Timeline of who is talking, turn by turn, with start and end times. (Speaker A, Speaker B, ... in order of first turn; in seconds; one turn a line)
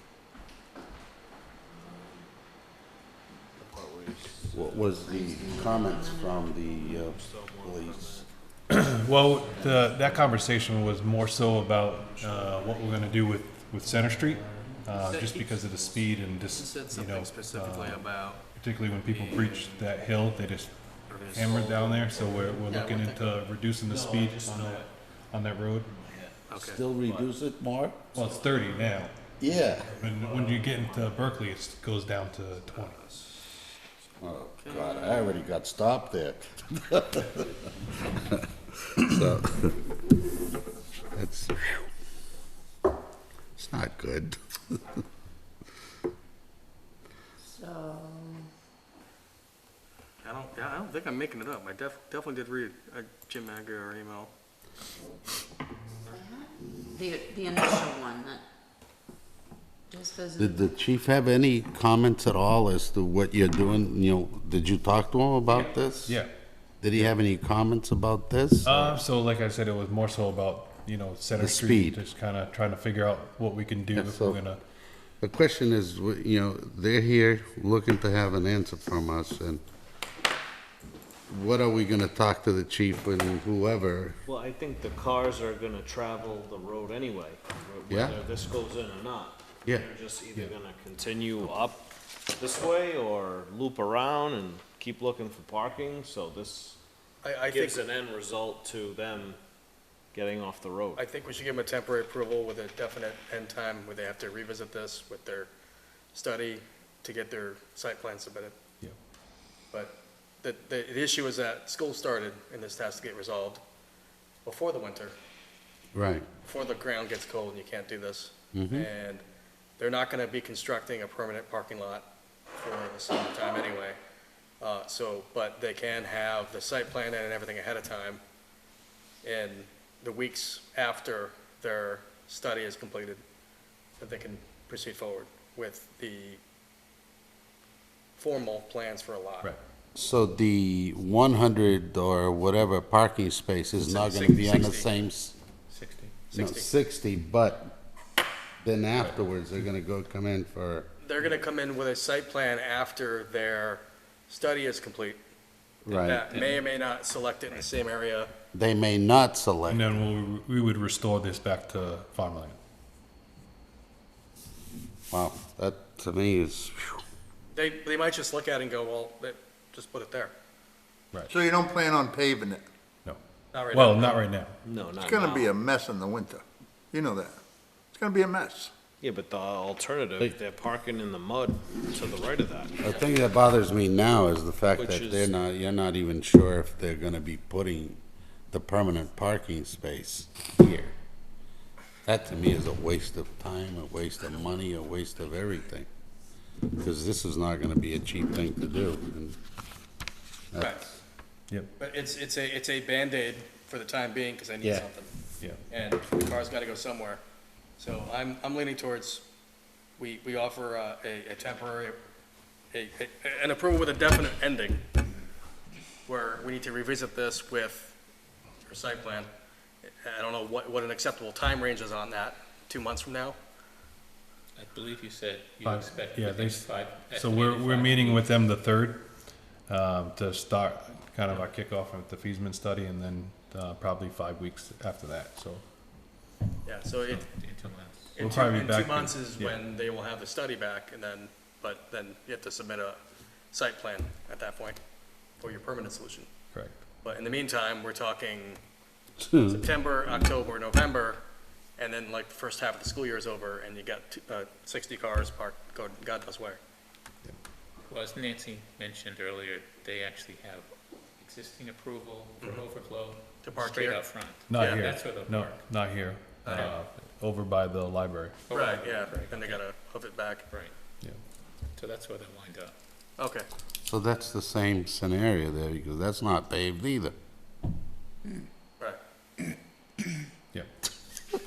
Speaker A: 1.8-2.2
Speaker B: 3.5-5.0
Speaker C: 4.5-8.2
Speaker A: 5.0-7.1
Speaker B: 7.1-8.3
Speaker D: 8.7-20.8
Speaker B: 9.9-10.9
Speaker B: 11.9-13.0
Speaker A: 14.5-14.9
Speaker E: 15.0-15.4
Speaker B: 15.3-16.0
Speaker E: 16.5-18.4
Speaker E: 19.0-19.9
Speaker E: 21.1-21.7
Speaker B: 21.2-22.8
Speaker D: 21.3-25.9
Speaker E: 22.5-23.3
Speaker B: 23.8-24.9
Speaker B: 25.9-27.3
Speaker E: 26.5-26.8
Speaker C: 26.6-28.1
Speaker D: 28.1-29.2
Speaker B: 28.1-31.5
Speaker C: 29.4-30.0
Speaker D: 29.9-33.0
Speaker B: 32.9-33.4
Speaker C: 34.2-37.4
Speaker E: 34.6-35.4
Speaker C: 39.0-39.8
Speaker C: 41.1-41.9
Speaker C: 43.5-44.4
Speaker A: 47.4-48.5
Speaker E: 50.2-54.3
Speaker A: 56.1-58.4
Speaker A: 59.9-60.6
Speaker C: 60.4-66.2
Speaker F: 65.5-65.7
Speaker D: 66.0-66.3
Speaker C: 66.8-69.0
Speaker D: 68.6-74.6
Speaker C: 71.3-72.0
Speaker C: 73.9-74.4
Speaker C: 75.2-79.6
Speaker C: 81.3-84.2
Speaker B: 84.2-96.8
Speaker C: 87.9-88.2
Speaker E: 97.2-97.9
Speaker B: 97.4-99.4
Speaker B: 100.1-101.0
Speaker E: 101.0-105.5
Speaker E: 106.1-108.5
Speaker E: 109.7-113.6
Speaker E: 114.4-115.1
Speaker C: 115.9-116.2
Speaker E: 116.4-119.2
Speaker C: 118.5-118.9
Speaker E: 119.8-124.0
Speaker E: 124.6-128.2
Speaker E: 129.2-133.2
Speaker E: 134.0-136.4
Speaker E: 138.2-139.5
Speaker C: 139.9-145.3
Speaker E: 143.8-144.9
Speaker F: 145.7-146.1
Speaker E: 146.3-146.8
Speaker C: 146.3-147.8
Speaker C: 148.6-150.9
Speaker E: 151.0-155.2
Speaker C: 155.8-156.2
Speaker E: 155.9-158.3
Speaker F: 156.3-156.6
Speaker C: 158.5-159.9
Speaker D: 159.7-162.6
Speaker C: 165.1-167.0
Speaker E: 167.5-170.3
Speaker G: 171.3-172.6
Speaker E: 173.5-174.2
Speaker D: 173.7-174.6
Speaker B: 174.6-175.6
Speaker G: 175.0-177.4
Speaker G: 177.9-178.7
Speaker B: 179.0-182.8
Speaker C: 182.8-188.0
Speaker E: 182.8-183.2
Speaker B: 184.7-185.3
Speaker C: 188.5-190.9
Speaker C: 192.0-195.9
Speaker C: 196.7-199.4
Speaker C: 200.5-200.8
Speaker E: 200.6-200.9
Speaker E: 201.8-205.1
Speaker C: 204.6-204.9
Speaker E: 205.7-207.2
Speaker E: 207.8-209.2
Speaker E: 210.0-212.0
Speaker E: 212.7-214.8
Speaker E: 216.1-218.0
Speaker E: 218.6-219.3
Speaker E: 219.8-223.4
Speaker F: 224.6-228.3
Speaker D: 225.6-229.1
Speaker D: 229.7-235.6
Speaker E: 236.6-237.2
Speaker F: 237.1-238.1
Speaker E: 238.2-243.0
Speaker D: 238.2-239.6
Speaker E: 243.5-244.8
Speaker E: 245.4-246.3
Speaker D: 246.5-246.8
Speaker E: 247.0-248.6
Speaker C: 249.2-249.7
Speaker E: 249.4-251.2
Speaker E: 251.8-256.6
Speaker F: 257.9-265.6
Speaker E: 263.4-264.0
Speaker D: 264.5-268.4
Speaker E: 264.5-264.9
Speaker E: 266.4-266.7
Speaker F: 266.4-266.8
Speaker F: 268.4-269.6
Speaker E: 268.5-270.5
Speaker F: 271.7-272.7
Speaker E: 273.2-273.5
Speaker C: 273.8-277.1